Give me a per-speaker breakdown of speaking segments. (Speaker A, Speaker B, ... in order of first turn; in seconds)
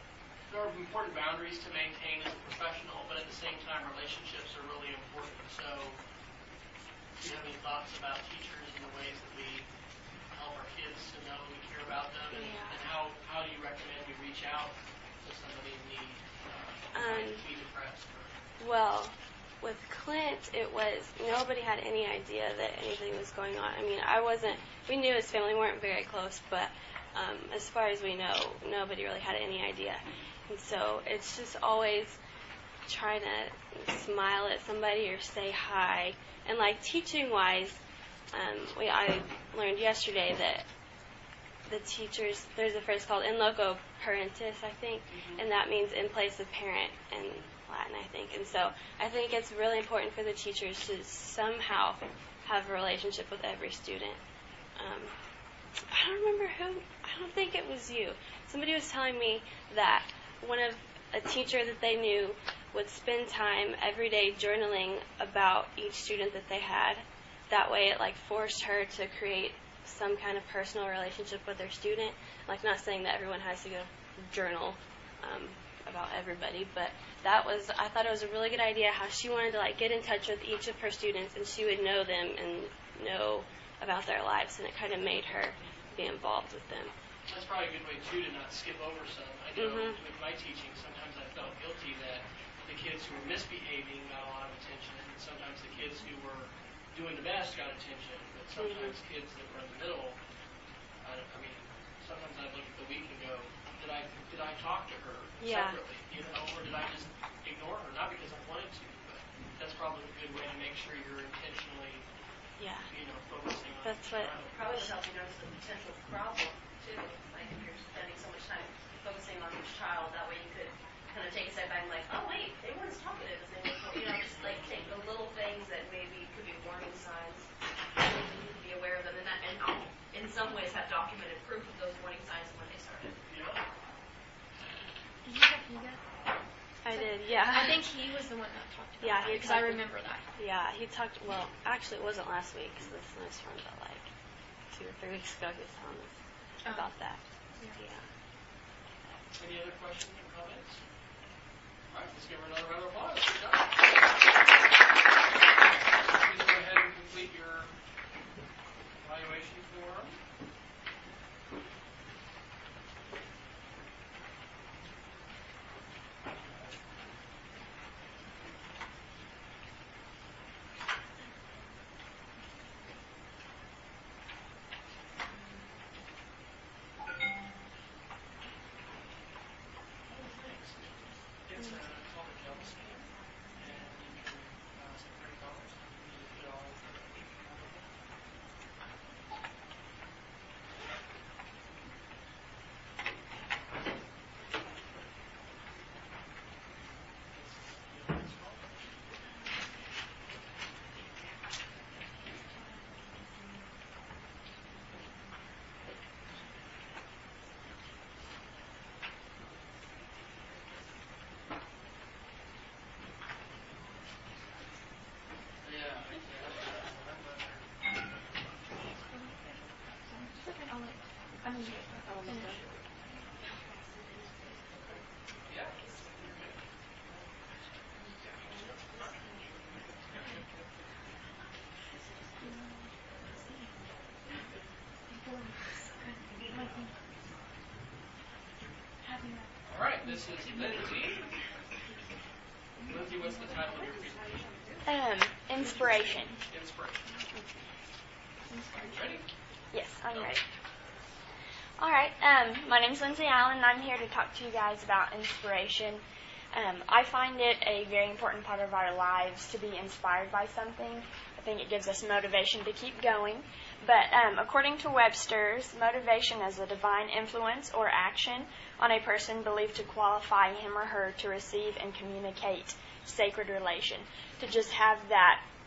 Speaker A: 0.5-6.0, 7.2-9.7, 10.3-18.3, 87.3-100.2, 101.0-112.0, 112.9-114.6, 133.3-133.6, 149.4-150.8, 151.9-153.8, 156.1-157.7, 159.0-160.2, 180.1-187.8, 197.3-198.8, 215.6-217.6, 222.2-222.5, 224.9-226.6, 228.2-229.1, 239.7-241.3, 242.8-244.4, 246.5-247.1, 248.8-249.3
Speaker B: 12.3-12.8, 16.9-17.4, 18.6-32.2, 32.9-37.8, 38.3-40.6, 41.7-54.2, 54.8-55.1, 55.9-86.9, 89.5-90.0, 98.6-99.0, 105.4-105.8, 112.6-112.9, 113.8-114.4, 136.8-137.9, 139.0-144.1, 144.7-146.1, 146.7-148.0
Speaker C: 114.5-133.2
Speaker D: 135.3-136.0, 136.9-140.2, 146.6-146.9, 219.1-219.4, 220.1-222.6, 223.6-224.6, 228.5-229.4, 232.4-232.8, 233.5-233.7, 235.1-236.9, 239.0-239.5, 243.5-244.8, 248.5-249.2
Speaker E: 244.9-246.4, 249.7-250.4, 251.8-256.0, 256.5-275.4